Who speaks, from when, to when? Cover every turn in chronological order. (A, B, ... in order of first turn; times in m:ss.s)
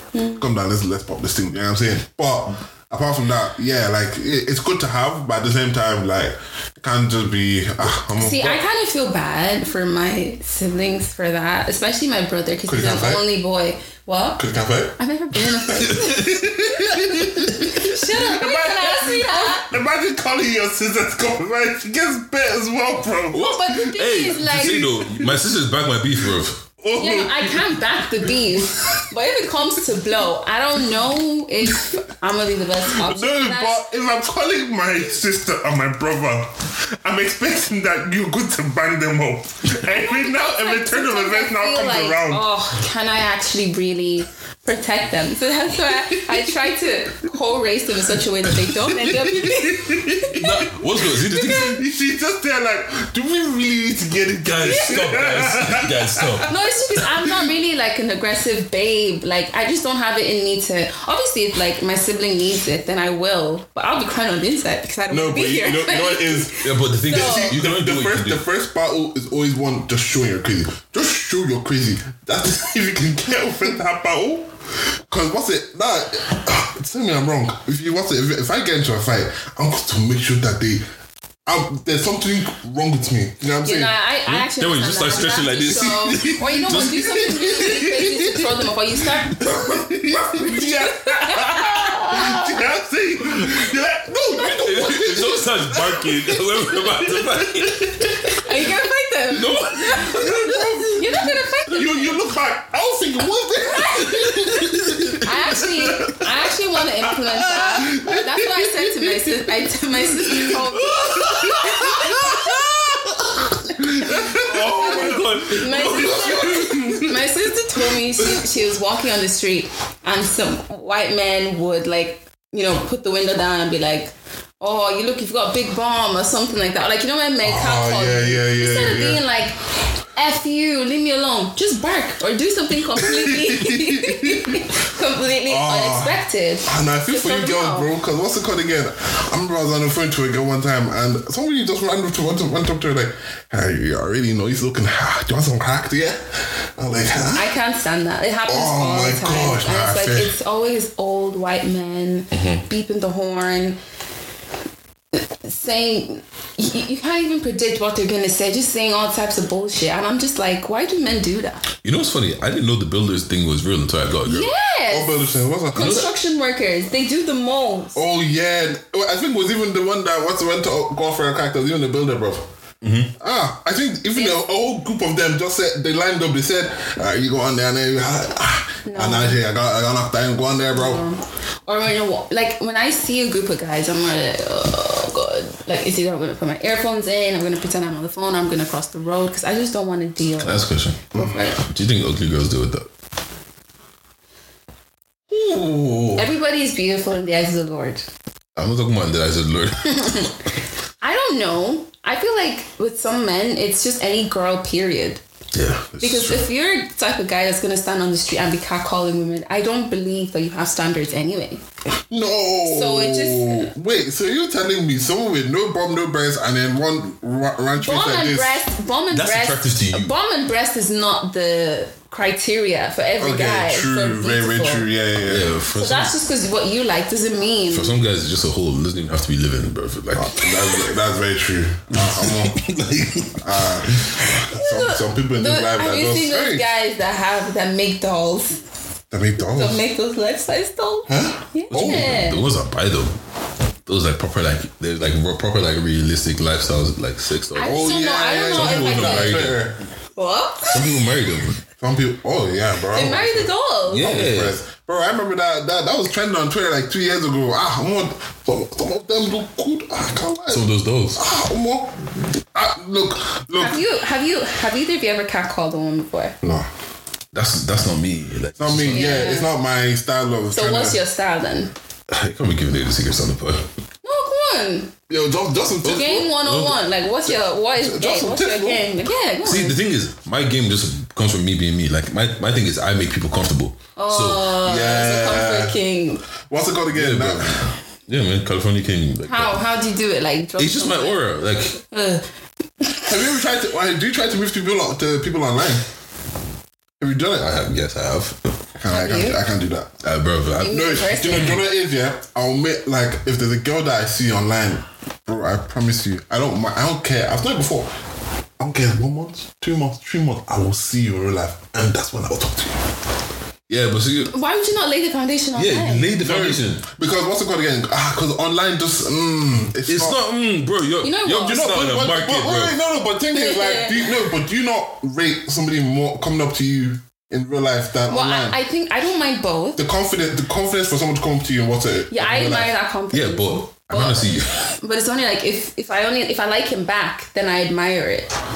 0:00.1-0:00.4 A
0:00.4-0:08.6 B
0:08.2-0:14.4 A
0:12.7-0:13.2 B
0:14.4-0:15.0 B
0:15.0-0:19.7 A
0:15.6-0:23.6 B
0:15.8-0:16.3 C
0:23.3-0:24.9 A
0:23.4-0:26.7 C
0:24.3-0:25.4 B
0:26.8-0:29.1 B
0:27.0-0:33.8 A
0:32.9-0:42.4 B
0:39.8-0:50.4 A
0:48.7-0:56.5 B
0:50.3-0:51.8 C
0:51.3-0:51.8 A
0:54.4-0:56.5 C
0:54.6-0:55.0 A
0:56.5-1:07.6 A
1:05.1-1:20.8 B
1:06.6-1:08.4 C
1:21.5-1:23.9 B
1:23.6-1:29.6 A
1:24.3-1:28.0 C
1:26.8-1:28.2 B
1:29.4-1:38.1 B
1:29.4-1:30.7 C
1:30.4-1:32.6 A
1:34.4-1:38.4 C
1:38.3-1:42.2 A
1:39.3-1:41.3 C
1:40.1-1:41.0 B
1:41.7-1:46.5 B
1:43.7-1:44.4 A
1:44.1-1:45.2 C
1:45.2-1:52.6 A
1:47.0-1:49.3 B
1:50.5-1:57.2 C
1:53.6-2:17.9 A
1:54.0-1:55.3 B
1:55.8-1:57.0 B
2:07.4-2:09.2 B
2:13.0-2:14.7 B
2:15.5-2:27.5 B
2:27.4-2:33.8 A
2:28.5-2:30.4 B
2:32.3-2:32.6 C
2:35.2-2:41.7 A
2:41.8-2:44.5 C
2:44.3-2:45.2 A
2:44.9-2:46.1 B
2:45.7-2:48.0 A
2:45.8-2:46.1 C
2:48.0-2:52.5 B
2:52.8-2:53.1 C
2:53.2-3:01.0 B
2:58.9-2:59.4 A
3:00.7-3:11.6 A
3:10.4-3:12.9 C
3:11.1-3:11.4 B
3:15.3-3:16.3 B
3:16.2-3:18.1 A
3:18.6-3:20.3 C
3:19.9-3:20.3 A
3:21.0-3:25.2 A
3:25.5-3:26.4 C
3:26.0-3:31.6 A
3:32.1-3:38.6 B
3:32.6-3:33.7 A
3:37.8-3:44.9 A
3:39.1-3:40.2 C
3:43.2-3:45.5 B
3:45.2-3:46.2 C
3:45.7-3:48.0 A
3:47.7-3:50.9 C
3:50.1-3:52.6 B
3:51.9-3:54.2 C
3:53.4-3:56.7 B
3:54.5-3:58.6 A
3:59.1-3:59.8 B
3:59.4-4:02.5 A
4:01.1-4:02.1 B
4:01.7-4:03.2 C
4:03.9-4:09.7 C
4:07.6-4:09.5 A
4:07.6-4:09.8 B
4:10.2-4:10.9 A
4:10.7-4:11.6 C
4:11.8-4:23.8 B
4:12.9-4:14.1 A
4:13.9-4:14.6 C
4:20.5-4:21.2 C
4:23.6-4:26.4 A
4:26.4-4:26.7 B
4:27.3-4:29.2 C
4:28.6-4:31.0 B
4:28.9-4:29.5 A
4:30.5-4:31.7 A
4:32.1-4:33.7 C
4:34.0-4:34.9 A
4:35.1-4:36.4 B
4:35.8-4:39.8 A
4:36.1-4:36.8 C
4:37.8-4:38.9 B
4:39.4-4:44.5 C
4:44.0-4:46.2 A
4:44.6-4:45.8 B
4:46.5-4:47.7 B
4:46.9-4:49.6 C
4:49.2-4:51.2 A
4:50.6-4:51.8 C
4:51.9-4:52.2 A
4:52.8-4:53.2 A
4:53.1-4:55.8 B
4:57.0-4:57.5 B
4:57.4-4:58.5 C
4:58.8-5:00.0 B
4:58.9-4:59.4 A
5:00.0-5:01.5 C
5:00.6-5:01.6 A
5:00.7-5:07.9 B
5:08.6-5:12.9 B
5:13.7-5:14.3 C
5:14.3-5:16.1 A
5:15.6-5:16.8 C
5:16.2-5:20.2 B
5:19.9-5:22.8 C
5:21.0-5:21.8 A
5:21.5-5:28.6 B
5:23.3-5:24.2 A
5:28.1-5:29.8 A
5:29.8-5:32.7 B
5:32.1-5:38.3 A
5:33.1-5:34.7 C